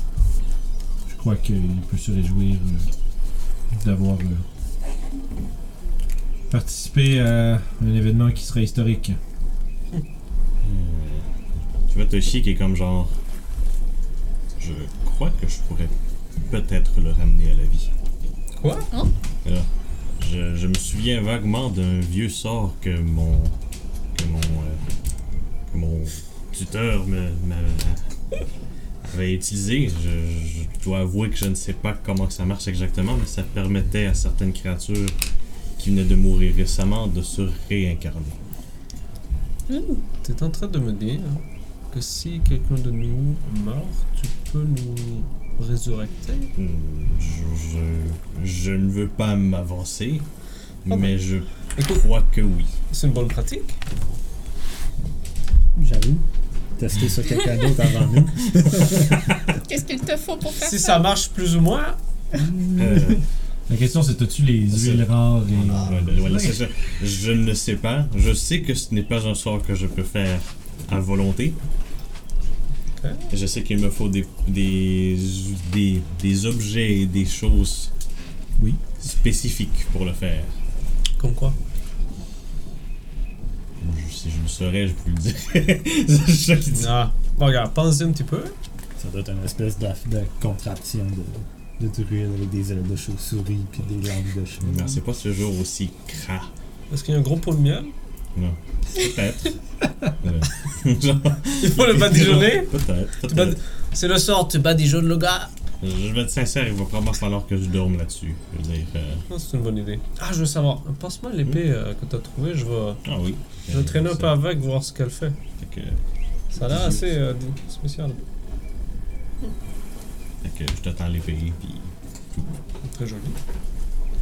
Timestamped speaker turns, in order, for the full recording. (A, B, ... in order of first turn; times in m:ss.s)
0:01.1-0:02.9 A
0:03.7-0:04.4 A
0:06.5-0:09.2 A
0:10.6-0:11.3 B
0:11.9-0:13.2 B
0:14.6-0:17.9 B
0:18.5-0:18.9 C
0:19.4-0:23.5 B
0:24.1-0:24.8 B
0:25.7-0:28.0 B
0:29.0-0:35.2 B
0:35.8-0:38.4 B
0:39.7-0:40.0 D
0:40.2-0:46.5 C
0:46.6-0:50.3 B
0:50.8-0:52.7 B
0:51.8-0:52.0 C
0:52.9-0:53.8 C
0:55.8-0:56.2 E
0:56.8-0:59.4 E
0:59.5-1:01.1 D
1:00.6-1:02.0 C
1:02.3-1:03.2 E
1:02.8-1:03.2 B
1:03.7-1:06.6 A
1:04.7-1:11.6 B
1:13.0-1:13.3 C
1:13.3-1:17.9 B
1:19.0-1:20.6 B
1:21.2-1:21.6 C
1:23.8-1:27.0 B
1:26.7-1:28.6 C
1:29.0-1:35.0 E
1:34.6-1:36.5 B
1:36.9-1:37.9 C
1:38.4-1:39.6 B
1:40.2-1:43.6 B
1:41.6-1:45.5 C
1:45.8-1:49.2 B
1:49.3-1:53.0 C
1:53.0-1:54.3 B
1:53.7-1:55.4 C
1:55.6-1:56.0 B
1:56.5-1:58.2 C
1:56.6-1:57.1 B
2:00.4-2:02.5 B
2:02.8-2:03.4 C